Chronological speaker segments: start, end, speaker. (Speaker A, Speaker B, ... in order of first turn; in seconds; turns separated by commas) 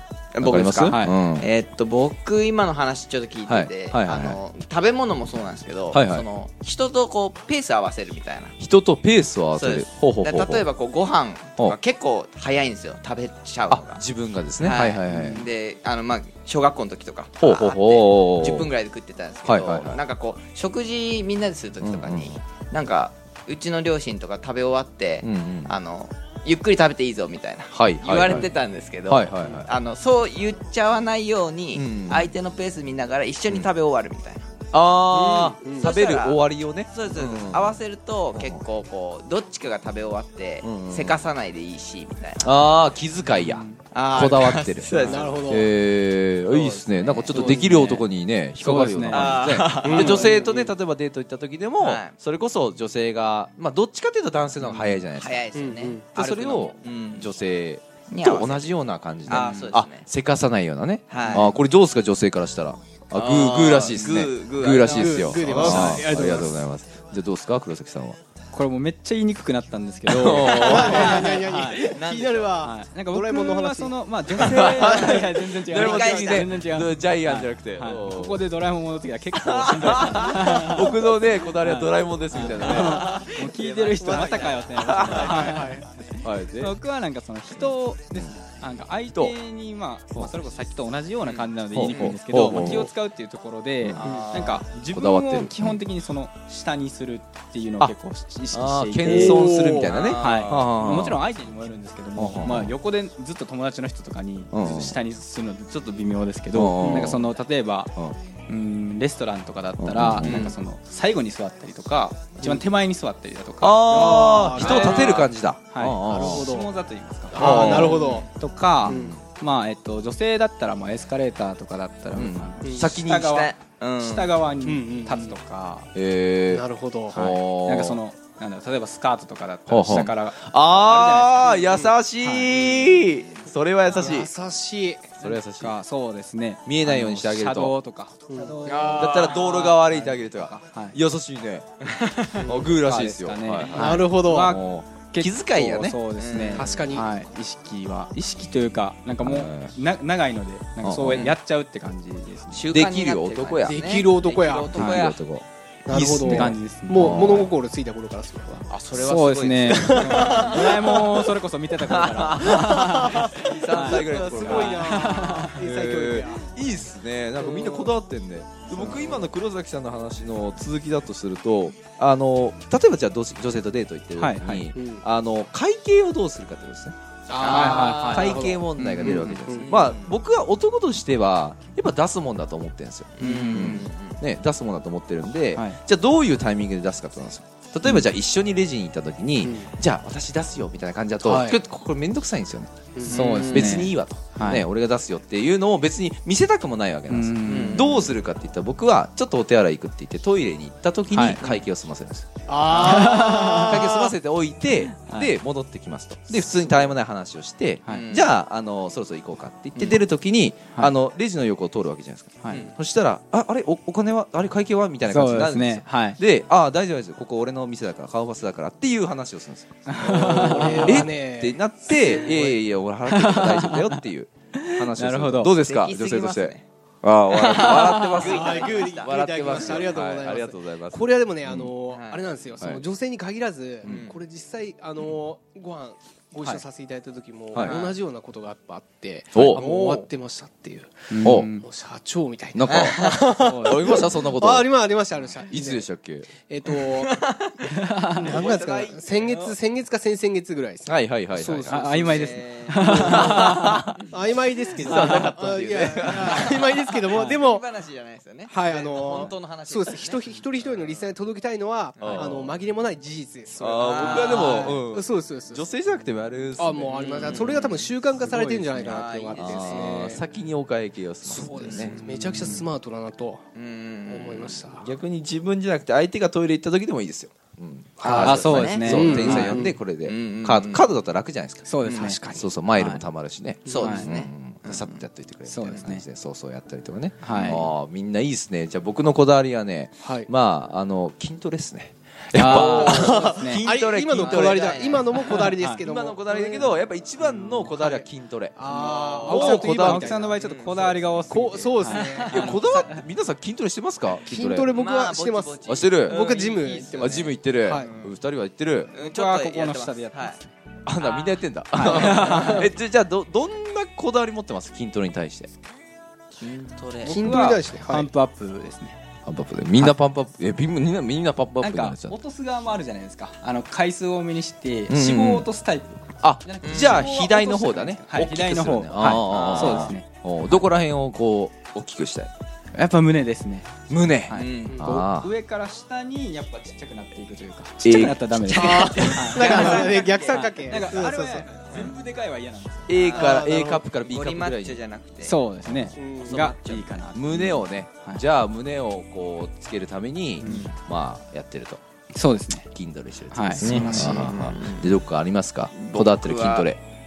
Speaker A: 0.3-8.6, Speaker B: 0.4-1.5, Speaker C: 0.8-1.1, Speaker B: 3.5-4.4, Speaker B: 5.9-6.3, Speaker B: 8.6-10.7, Speaker A: 9.6-14.0, Speaker B: 13.7-15.5, Speaker A: 14.6-34.5, Speaker C: 15.1-15.4, Speaker B: 17.4-18.7, Speaker B: 19.4-20.0, Speaker B: 21.8-22.4, Speaker B: 25.2-25.8, Speaker B: 27.7-28.5, Speaker B: 29.1-29.7, Speaker B: 31.8-32.3, Speaker B: 34.7-37.8, Speaker D: 35.1-35.9, Speaker A: 35.6-42.6, Speaker B: 38.3-38.6, Speaker B: 40.6-41.2, Speaker B: 42.4-55.4, Speaker C: 43.3-43.8, Speaker A: 43.9-45.6, Speaker D: 44.9-45.7, Speaker A: 46.5-48.1, Speaker D: 47.3-47.8, Speaker C: 48.6-49.4, Speaker A: 49.1-50.5, Speaker D: 49.8-50.7, Speaker A: 51.8-52.1, Speaker A: 54.6-57.3, Speaker D: 55.5-56.1, Speaker B: 56.1-68.2, Speaker A: 58.1-58.7, Speaker A: 59.3-60.1, Speaker A: 61.1-61.5, Speaker A: 63.1-66.2, Speaker D: 64.8-66.7, Speaker C: 65.4-66.5, Speaker C: 68.5-71.9, Speaker B: 70.1-71.3, Speaker D: 70.5-74.0, Speaker A: 70.8-72.5, Speaker C: 72.6-108.0, Speaker A: 74.3-76.5, Speaker D: 74.6-75.1, Speaker B: 74.8-78.5, Speaker B: 79.3-83.1, Speaker A: 82.4-85.8, Speaker D: 84.0-84.5, Speaker B: 84.8-85.6, Speaker D: 85.3-85.8, Speaker B: 86.2-86.8, Speaker B: 87.6-88.4, Speaker A: 91.2-92.8, Speaker B: 91.7-92.9, Speaker B: 93.8-95.8, Speaker A: 94.0-94.6, Speaker B: 98.5-101.2, Speaker D: 99.0-99.9, Speaker A: 99.8-100.7, Speaker B: 102.2-102.8, Speaker B: 104.5-105.0, Speaker B: 106.5-107.3, Speaker D: 106.8-107.1, Speaker C: 108.5-125.9, Speaker B: 109.8-110.5, Speaker A: 110.2-110.6, Speaker B: 113.6-116.5, Speaker D: 113.9-115.2, Speaker A: 114.7-115.3, Speaker D: 116.1-116.7, Speaker D: 117.3-118.3, Speaker B: 117.3-118.0, Speaker A: 117.5-118.3, Speaker B: 118.8-119.2, Speaker D: 118.9-119.2, Speaker B: 122.1-123.4, Speaker D: 122.6-122.9, Speaker A: 123.0-124.4, Speaker D: 124.6-125.3, Speaker B: 126.0-128.0, Speaker D: 126.5-127.2, Speaker C: 127.1-131.6, Speaker B: 129.7-134.3, Speaker D: 131.6-131.9, Speaker C: 132.2-132.5, Speaker A: 132.5-133.1, Speaker D: 133.9-135.1, Speaker C: 135.2-141.0, Speaker B: 135.2-135.8, Speaker B: 136.7-137.8, Speaker D: 138.3-139.1, Speaker A: 138.7-139.8, Speaker B: 139.0-141.7, Speaker A: 141.9-142.6, Speaker B: 142.3-146.0, Speaker C: 142.5-152.7, Speaker D: 143.7-144.5, Speaker A: 146.1-147.0, Speaker D: 146.5-147.1, Speaker B: 149.2-149.8, Speaker B: 150.8-151.3, Speaker A: 151.1-151.4, Speaker A: 152.5-155.2, Speaker B: 152.7-153.8, Speaker D: 153.6-154.9, Speaker B: 154.7-157.5, Speaker D: 155.9-158.7, Speaker C: 155.9-157.5, Speaker A: 158.7-161.3, Speaker C: 158.9-165.5, Speaker D: 159.7-161.0, Speaker A: 161.8-164.8, Speaker D: 162.6-166.5, Speaker B: 163.2-165.0, Speaker B: 165.6-231.7, Speaker D: 167.4-167.9, Speaker D: 168.7-169.3, Speaker C: 174.2-174.7, Speaker D: 174.8-175.1, Speaker D: 177.3-179.7, Speaker A: 177.3-180.1, Speaker C: 177.4-179.3, Speaker A: 183.2-184.2, Speaker C: 183.2-183.8, Speaker D: 189.4-189.7, Speaker D: 191.2-191.6, Speaker D: 193.0-193.3, Speaker C: 193.1-194.7, Speaker A: 193.1-193.9, Speaker C: 197.1-197.9, Speaker A: 197.4-198.1, Speaker C: 201.1-201.4, Speaker D: 202.5-204.0, Speaker A: 202.7-203.1, Speaker C: 202.8-203.9, Speaker C: 204.8-205.3, Speaker C: 206.4-206.9, Speaker C: 207.8-208.1, Speaker A: 207.9-208.3, Speaker A: 209.8-210.0, Speaker C: 212.4-212.7, Speaker A: 212.5-212.7, Speaker C: 215.1-216.2, Speaker C: 219.9-221.1, Speaker D: 220.1-222.6, Speaker C: 223.1-224.0, Speaker C: 224.6-225.5, Speaker A: 225.6-226.7, Speaker A: 227.3-229.9, Speaker D: 228.2-247.2, Speaker A: 231.9-232.4, Speaker B: 233.8-234.1, Speaker A: 233.8-234.2, Speaker B: 237.5-237.8, Speaker A: 237.5-238.0, Speaker B: 239.3-239.6, Speaker A: 239.4-240.1, Speaker C: 241.1-241.6, Speaker B: 241.2-241.5, Speaker B: 242.6-244.7, Speaker A: 242.7-243.3, Speaker C: 243.4-244.0, Speaker B: 245.5-246.3, Speaker A: 246.7-249.6, Speaker C: 247.7-248.4, Speaker D: 248.1-252.0, Speaker B: 250.9-253.9, Speaker C: 251.7-253.8, Speaker A: 251.9-254.1, Speaker D: 252.8-257.6, Speaker B: 254.8-256.8, Speaker A: 254.9-261.1, Speaker C: 254.9-255.3, Speaker D: 258.5-265.6, Speaker A: 262.0-262.4, Speaker B: 262.0-262.6, Speaker B: 263.6-272.0, Speaker A: 263.8-264.8, Speaker D: 266.6-270.2, Speaker A: 266.9-267.9, Speaker A: 268.8-270.1, Speaker D: 271.2-273.5, Speaker A: 271.5-272.0, Speaker C: 272.0-272.6, Speaker A: 273.6-274.7, Speaker D: 274.1-274.9, Speaker B: 274.8-281.8, Speaker D: 278.0-279.8, Speaker A: 278.1-280.9, Speaker C: 278.2-279.6, Speaker C: 281.7-283.0, Speaker D: 281.8-282.5, Speaker B: 282.3-298.6, Speaker A: 283.7-285.0, Speaker C: 283.8-284.1, Speaker C: 285.5-286.1, Speaker C: 287.2-287.7, Speaker A: 287.3-287.6, Speaker D: 290.0-290.3, Speaker C: 292.3-293.7, Speaker A: 292.5-293.2, Speaker D: 292.6-296.8, Speaker A: 294.0-295.5, Speaker C: 295.2-295.8, Speaker D: 297.6-300.4, Speaker A: 298.7-299.5, Speaker C: 298.7-303.0, Speaker B: 299.2-300.3, Speaker A: 300.2-301.1, Speaker D: 301.3-302.5, Speaker A: 301.9-302.8, Speaker B: 302.3-304.7, Speaker D: 304.2-307.9, Speaker A: 304.7-308.2, Speaker B: 305.7-306.4, Speaker B: 306.9-308.9, Speaker A: 308.9-310.4, Speaker C: 308.9-310.5, Speaker B: 310.9-315.5, Speaker A: 311.0-312.7, Speaker C: 311.7-312.7, Speaker A: 316.4-317.5, Speaker C: 317.0-319.0, Speaker D: 317.1-318.1, Speaker B: 319.3-322.2, Speaker C: 321.6-330.6, Speaker B: 324.9-325.5, Speaker B: 326.2-332.3, Speaker A: 326.6-327.1, Speaker A: 329.2-330.0, Speaker C: 332.7-333.7, Speaker B: 333.9-335.3, Speaker C: 334.3-343.1, Speaker A: 334.3-334.9, Speaker B: 337.8-339.0, Speaker D: 338.5-341.5, Speaker A: 339.2-341.1, Speaker B: 342.9-344.8, Speaker A: 342.9-343.4, Speaker D: 343.1-343.9, Speaker A: 344.1-345.4, Speaker C: 345.2-348.2, Speaker B: 345.6-345.9, Speaker D: 346.0-346.4, Speaker A: 346.0-347.6, Speaker B: 347.1-351.8, Speaker C: 350.4-350.7, Speaker A: 350.4-350.7, Speaker C: 352.1-352.7, Speaker B: 352.7-356.8, Speaker C: 353.3-354.4, Speaker A: 353.6-355.1, Speaker A: 355.7-356.7